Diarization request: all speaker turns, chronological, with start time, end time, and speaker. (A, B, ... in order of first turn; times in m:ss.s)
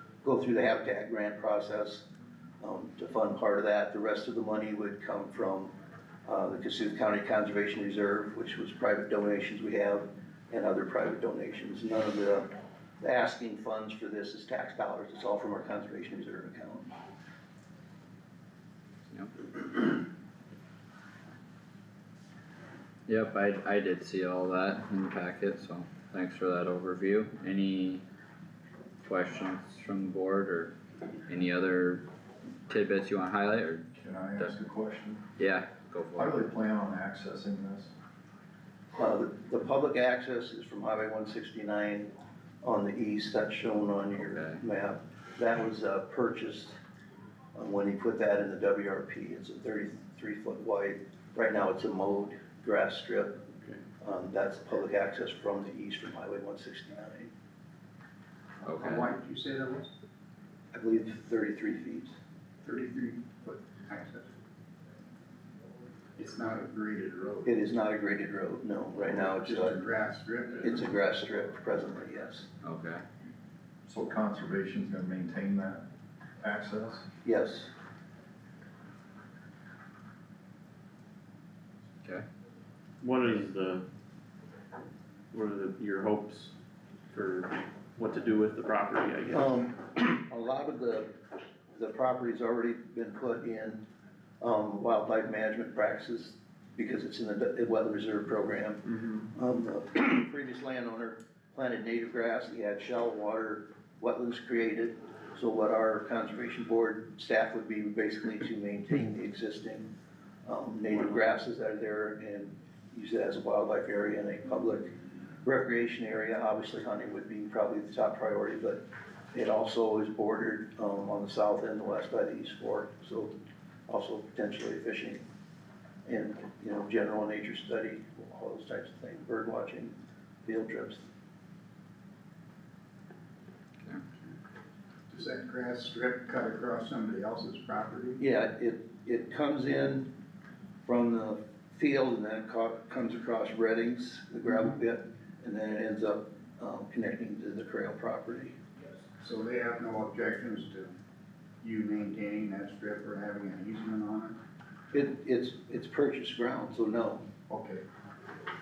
0:00.2-0:02.0 A
0:02.6-0:05.7 A
0:06.3-0:16.9 A
0:19.1-0:19.9 B
0:23.1-0:28.0 B
0:29.0-0:30.7 B
0:31.3-0:32.0 B
0:32.7-0:33.9 B
0:34.0-0:35.3 C
0:35.4-0:36.4 B
0:36.2-0:37.9 C
0:39.0-0:46.8 A
0:44.2-0:44.6 B
0:47.6-0:53.4 A
0:54.0-0:57.3 A
0:58.6-0:59.1 B
0:58.7-0:59.9 D
1:00.7-1:02.2 A
1:02.6-1:04.3 D
1:06.2-1:07.5 D
1:07.4-1:09.8 A
1:09.1-1:10.8 D
1:10.6-1:12.5 A
1:12.6-1:13.0 B
1:13.9-1:15.8 C
1:16.4-1:17.1 C
1:17.2-1:17.7 A
1:23.0-1:23.8 E
1:25.3-1:26.5 E
1:27.1-1:29.6 E
1:29.3-1:31.1 A
1:31.7-1:33.8 A
1:34.4-1:49.9 A
1:50.4-1:54.9 A
1:55.4-1:58.8 A
1:59.3-2:03.3 A
2:03.9-2:05.2 A
2:06.1-2:09.9 A
2:10.4-2:11.0 A
2:15.1-2:18.2 D
2:18.2-2:20.1 A
2:20.9-2:28.6 A
2:29.2-2:30.9 D
2:31.6-2:34.4 D
2:34.9-2:37.2 A
2:37.5-2:37.8 D